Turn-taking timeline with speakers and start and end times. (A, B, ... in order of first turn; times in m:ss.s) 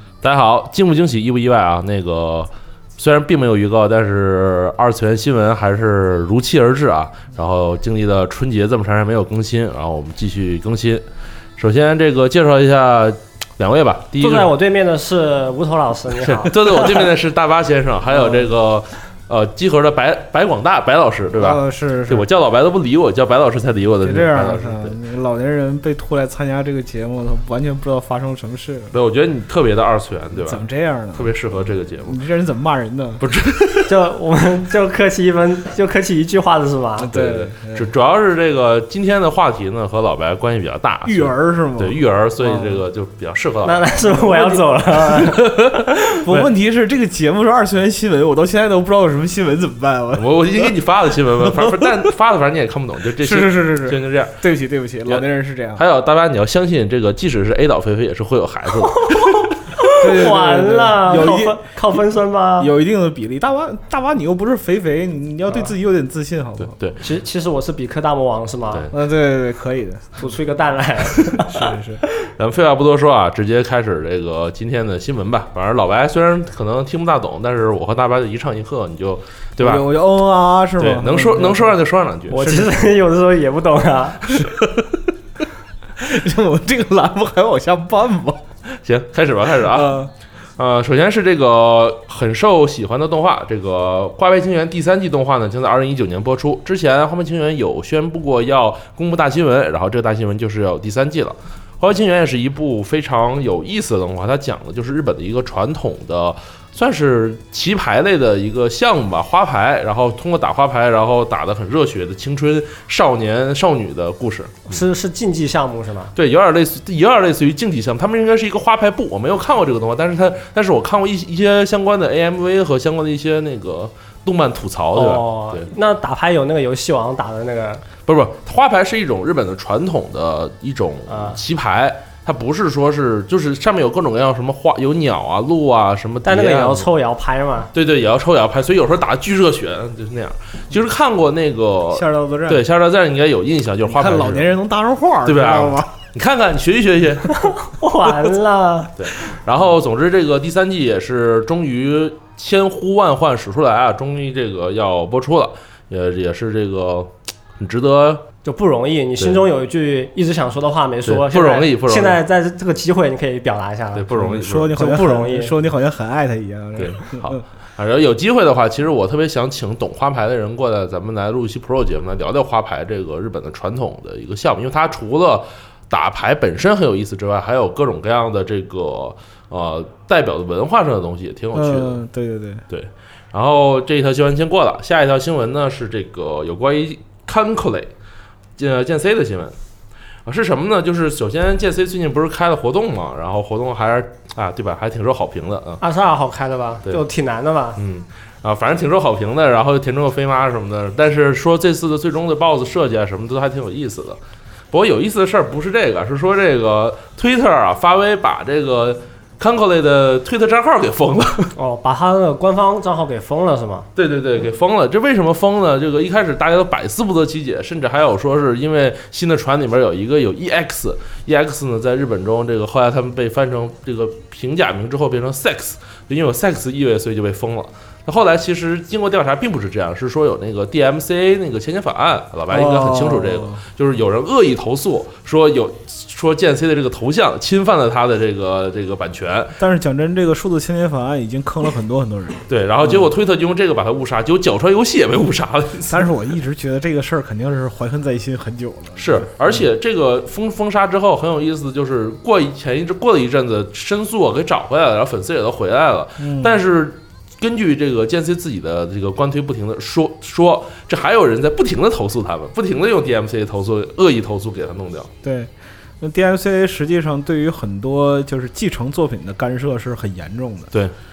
0:00.2-0:11.0 A
0:11.6-0:14.5 A
0:14.2-0:17.1 B
0:16.2-0:24.9 A
0:18.1-0:18.5 C
0:21.4-0:22.3 C
0:24.0-0:29.0 C
0:28.9-0:30.6 A
0:30.4-0:33.2 C
0:31.1-0:32.2 A
0:33.2-0:33.9 A
0:33.9-0:37.1 B
0:37.0-0:37.9 C
0:37.1-0:43.8 A
0:41.0-0:42.8 C
0:43.6-0:45.5 B
0:44.1-0:52.1 C
0:45.6-0:46.5 A
0:50.2-0:54.4 A
0:53.2-0:55.8 C
0:55.8-0:59.5 A
0:58.8-1:02.7 B
1:00.0-1:01.6 C
1:02.6-1:06.7 C
1:06.7-1:07.0 A
1:07.0-1:08.9 B
1:08.9-1:10.3 C
1:10.2-1:11.7 B
1:11.5-1:12.0 C
1:12.4-1:19.9 A
1:19.6-1:21.8 C
1:20.8-1:22.4 A
1:22.3-1:24.4 B
1:22.4-1:22.8 C
1:24.3-1:25.1 C
1:26.0-1:28.4 C
1:28.8-1:30.0 A
1:29.6-1:30.1 C
1:30.6-1:54.8 A
1:54.7-1:56.1 B
1:56.2-2:05.7 A
2:05.0-2:07.9 B
2:08.0-2:16.9 A
2:11.1-2:11.4 B
2:16.2-2:17.7 B
2:17.7-2:24.5 A
2:21.9-2:22.7 C
2:23.8-2:26.0 C
2:25.2-2:27.4 A
2:27.4-2:29.2 B
2:29.0-2:38.3 A
2:38.4-2:44.1 B
2:41.0-2:42.2 A
2:43.9-2:44.8 A
2:44.1-2:47.4 C
2:44.7-2:45.5 B
2:46.8-3:02.0 A
3:01.5-3:02.6 C
3:02.7-3:07.9 A
3:08.6-3:09.6 A
3:10.2-3:15.8 A
3:15.8-3:17.8 B
3:17.8-3:24.2 A
3:24.7-3:31.6 A
3:31.6-3:33.9 B
3:34.0-3:59.6 A
3:52.5-3:53.6 C
3:59.6-4:03.1 C
4:02.5-4:06.1 A
4:05.8-4:09.6 C
4:09.0-4:25.1 A
4:16.2-4:16.6 C
4:25.2-4:30.7 C